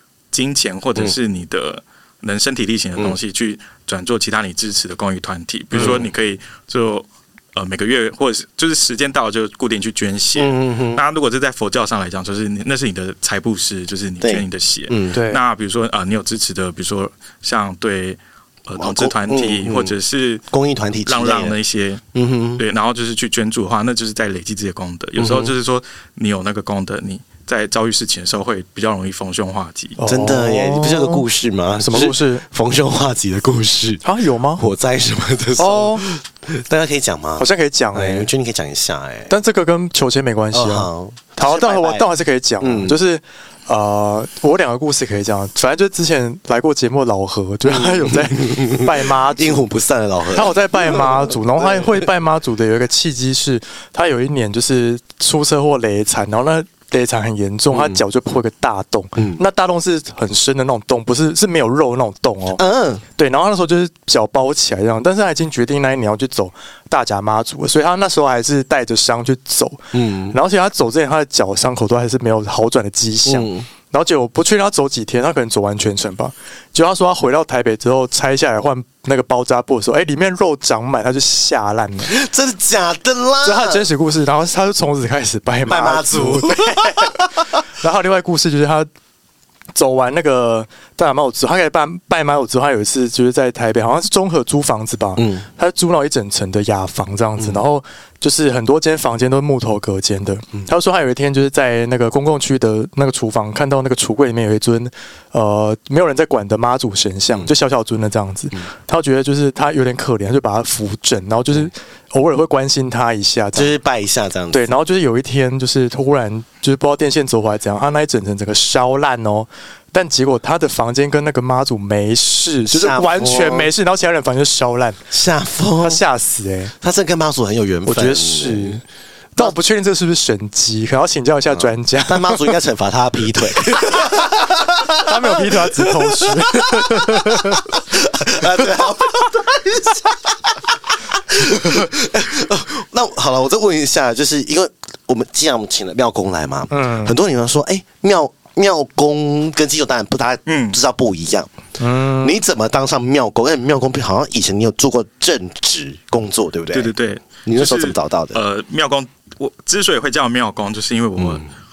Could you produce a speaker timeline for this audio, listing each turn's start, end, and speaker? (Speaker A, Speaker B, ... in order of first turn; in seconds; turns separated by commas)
Speaker A: 0.3-20.4, Speaker B: 5.7-6.1, Speaker B: 10.4-11.0, Speaker B: 14.2-15.2, Speaker C: 15.1-15.4, Speaker B: 18.8-19.9, Speaker B: 20.5-21.6, Speaker A: 21.1-22.0, Speaker B: 22.1-22.6, Speaker A: 22.6-30.0, Speaker B: 25.2-25.5, Speaker C: 30.0-31.2, Speaker B: 30.1-34.0, Speaker C: 31.8-32.5, Speaker C: 34.0-34.6, Speaker B: 34.6-39.3, Speaker C: 35.6-36.0, Speaker C: 37.4-38.3, Speaker C: 39.3-49.6, Speaker B: 40.5-42.1, Speaker B: 42.6-43.0, Speaker B: 47.7-52.0, Speaker C: 50.3-62.6, Speaker B: 57.7-58.0, Speaker B: 59.2-59.4, Speaker B: 62.6-63.0, Speaker C: 63.2-82.2, Speaker B: 69.9-70.4, Speaker B: 73.2-73.7, Speaker B: 82.0-83.9, Speaker C: 83.4-88.9, Speaker B: 85.7-87.5, Speaker C: 89.8-113.7, Speaker B: 95.2-95.5, Speaker B: 97.4-97.6, Speaker B: 113.5-114.7, Speaker C: 114.5-125.0, Speaker B: 122.7-123.7, Speaker B: 125.1-126.0, Speaker C: 125.8-126.7, Speaker B: 126.8-128.8, Speaker C: 127.9-128.8, Speaker C: 129.4-132.6, Speaker B: 131.5-151.5, Speaker C: 133.7-134.3, Speaker C: 134.9-137.7, Speaker C: 146.7-147.2, Speaker A: 150.5-150.8, Speaker C: 151.8-152.4, Speaker B: 152.2-156.9, Speaker A: 156.7-161.5, Speaker B: 157.4-158.4, Speaker B: 161.2-161.4